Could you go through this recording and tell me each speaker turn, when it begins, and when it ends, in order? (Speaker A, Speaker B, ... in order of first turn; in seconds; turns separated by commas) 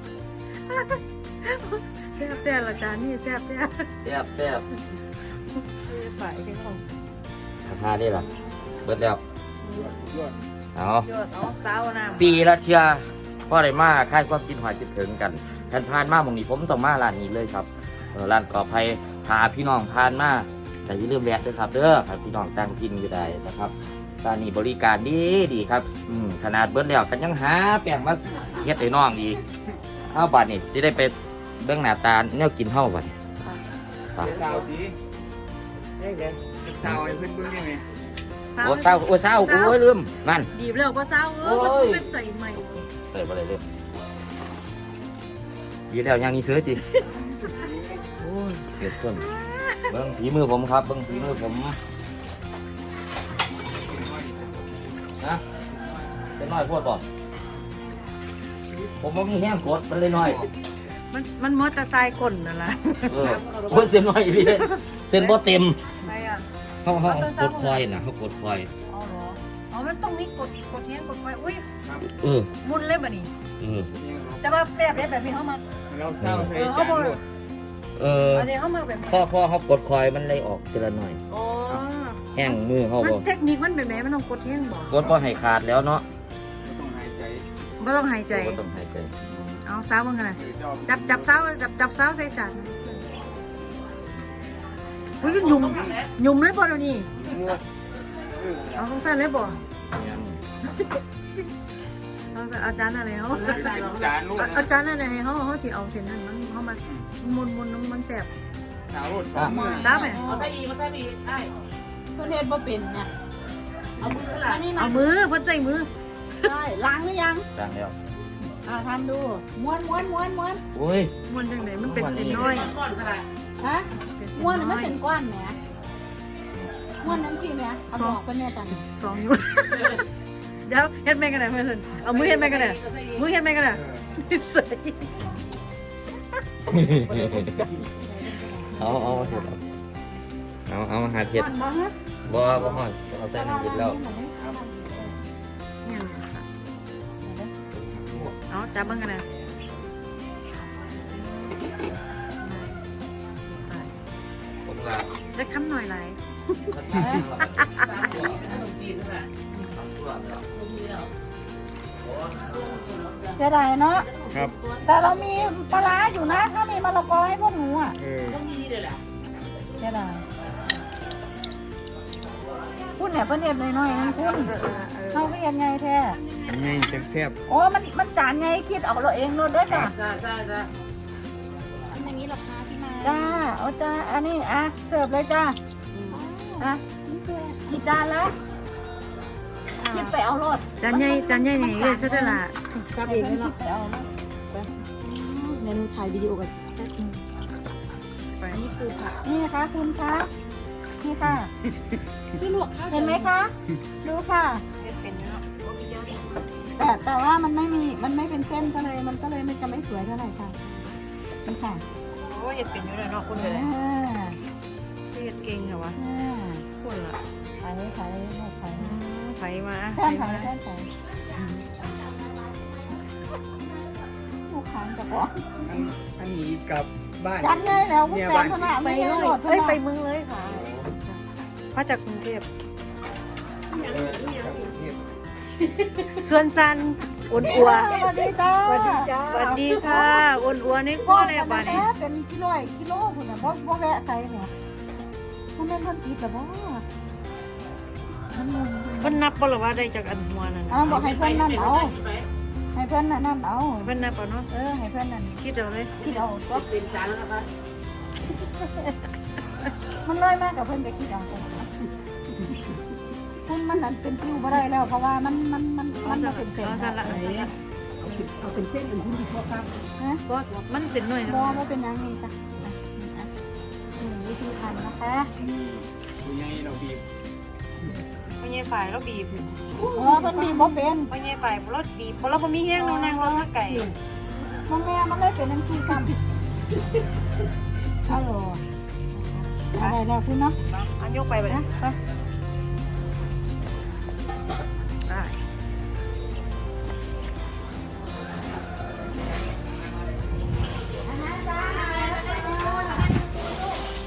Speaker A: 0.7-3.9, Speaker B: 4.0-4.7, Speaker A: 5.6-6.8, Speaker B: 7.7-8.3, Speaker A: 8.2-8.6, Speaker B: 8.8-9.2, Speaker C: 9.7-10.4, Speaker A: 9.7-10.1, Speaker B: 10.8-11.1, Speaker A: 11.1-12.3, Speaker B: 12.2-29.4, Speaker B: 30.1-33.1, Speaker B: 34.2-34.4, Speaker C: 34.2-35.0, Speaker D: 34.2-34.7, Speaker D: 36.0-36.4, Speaker C: 36.5-37.8, Speaker A: 38.6-39.8, Speaker B: 38.6-40.5, Speaker A: 40.5-42.8, Speaker B: 41.4-43.6, Speaker B: 45.9-46.9, Speaker A: 46.9-47.5, Speaker B: 48.2-49.2, Speaker A: 49.2-49.9, Speaker B: 49.9-51.8, Speaker C: 53.9-55.0, Speaker B: 56.4-57.0, Speaker B: 59.0-60.5, Speaker A: 61.1-63.2, Speaker B: 63.1-65.8, Speaker D: 63.2-64.0, Speaker A: 64.4-65.4, Speaker A: 66.0-67.8, Speaker B: 66.8-68.7, Speaker A: 68.9-71.7, Speaker B: 72.2-72.5, Speaker A: 72.6-73.3, Speaker B: 73.6-73.9, Speaker C: 73.9-74.4, Speaker A: 74.4-75.6, Speaker C: 75.9-77.2, Speaker B: 76.2-76.5, Speaker A: 76.5-77.2, Speaker B: 78.0-78.5, Speaker A: 78.3-79.2, Speaker B: 79.1-81.2, Speaker A: 81.3-85.1, Speaker B: 82.3-83.3, Speaker B: 84.9-86.0, Speaker C: 86.6-87.5, Speaker A: 87.8-88.6, Speaker B: 88.3-89.1, Speaker A: 89.2-93.1, Speaker C: 90.4-91.3, Speaker A: 95.2-97.1, Speaker D: 95.2-96.1, Speaker C: 95.4-96.0, Speaker C: 97.2-97.6, Speaker C: 98.3-98.9, Speaker A: 98.8-99.6, Speaker B: 99.9-100.4, Speaker A: 102.3-108.3, Speaker D: 103.3-104.1, Speaker C: 103.5-104.7, Speaker C: 108.9-110.0, Speaker B: 109.4-109.6, Speaker E: 109.5-110.5, Speaker A: 109.7-110.2, Speaker D: 110.2-111.5, Speaker E: 112.2-113.1, Speaker D: 114.0-114.7, Speaker E: 114.4-115.0, Speaker A: 114.8-115.9, Speaker E: 116.4-117.5, Speaker B: 117.5-117.9, Speaker E: 118.7-120.6, Speaker B: 120.7-121.1, Speaker A: 121.3-122.7, Speaker B: 121.8-122.7, Speaker D: 122.4-123.2, Speaker E: 123.6-125.6, Speaker A: 124.0-125.0, Speaker E: 127.0-128.8, Speaker A: 127.9-128.2, Speaker A: 128.8-130.0, Speaker A: 130.7-135.1, Speaker D: 132.1-133.3, Speaker B: 136.7-137.7, Speaker A: 137.2-137.7, Speaker E: 137.9-139.5, Speaker B: 138.8-139.6, Speaker B: 140.7-141.5, Speaker E: 141.3-141.9, Speaker B: 142.3-144.0, Speaker E: 143.3-145.2, Speaker A: 145.8-146.4, Speaker E: 147.2-147.5, Speaker B: 147.7-148.3, Speaker A: 148.5-149.2, Speaker A: 151.1-151.6, Speaker A: 152.4-152.8, Speaker A: 153.5-153.9, Speaker B: 154.7-155.1, Speaker A: 155.3-156.7, Speaker B: 156.7-158.4, Speaker E: 157.0-157.2, Speaker A: 157.4-157.9, Speaker D: 157.8-159.3, Speaker A: 159.5-159.8, Speaker B: 159.7-160.4, Speaker D: 160.5-161.1, Speaker B: 162.0-162.6, Speaker D: 162.4-163.4, Speaker E: 163.3-164.1, Speaker D: 163.9-164.9, Speaker E: 164.8-168.0, Speaker C: 168.0-168.4, Speaker D: 168.3-169.0, Speaker E: 169.8-170.2, Speaker E: 173.0-176.2, Speaker D: 174.2-174.5, Speaker A: 174.2-175.3, Speaker A: 176.2-176.8, Speaker C: 176.5-177.4, Speaker E: 177.5-179.9, Speaker D: 179.7-180.7, Speaker E: 181.9-185.6, Speaker A: 183.0-183.4, Speaker A: 185.9-186.7, Speaker E: 186.1-188.3, Speaker A: 189.8-190.2, Speaker E: 189.9-192.4, Speaker A: 190.8-193.5, Speaker E: 193.0-194.1, Speaker E: 195.0-196.9, Speaker E: 198.5-200.3, Speaker E: 201.0-201.5, Speaker A: 202.4-203.3, Speaker E: 202.8-203.5, Speaker E: 204.0-204.6, Speaker A: 204.8-206.4, Speaker E: 206.8-210.6, Speaker E: 211.4-211.8, Speaker A: 212.2-213.7, Speaker E: 213.3-214.4, Speaker A: 215.1-216.0, Speaker E: 216.0-216.7, Speaker A: 216.8-217.2, Speaker E: 217.6-219.0, Speaker A: 218.8-220.5, Speaker E: 219.9-220.9, Speaker A: 221.4-221.7, Speaker E: 224.5-225.3, Speaker C: 225.6-228.8, Speaker E: 227.4-229.8, Speaker A: 228.7-231.2, Speaker C: 230.5-230.8, Speaker A: 231.8-232.5, Speaker A: 233.7-234.7, Speaker C: 233.8-235.0, Speaker A: 235.8-241.9, Speaker E: 237.4-244.5, Speaker E: 245.6-246.8, Speaker E: 248.3-249.2, Speaker A: 249.0-251.0, Speaker E: 250.7-251.9, Speaker D: 250.8-252.3, Speaker E: 252.7-253.9, Speaker A: 253.8-254.5, Speaker E: 254.5-255.4, Speaker A: 255.4-255.9, Speaker E: 256.0-256.7, Speaker D: 256.0-257.5, Speaker E: 260.1-261.7, Speaker E: 263.5-267.5, Speaker A: 266.0-267.5, Speaker D: 268.1-269.7, Speaker A: 270.3-271.6, Speaker E: 271.2-273.3, Speaker E: 274.0-275.3, Speaker C: 275.4-277.0, Speaker A: 278.4-279.4, Speaker E: 279.8-281.1, Speaker A: 280.1-283.9, Speaker E: 282.7-283.9, Speaker E: 284.7-286.2, Speaker E: 288.1-288.6, Speaker E: 289.7-290.6, Speaker A: 290.8-292.0, Speaker A: 295.1-295.4, Speaker E: 301.1-303.2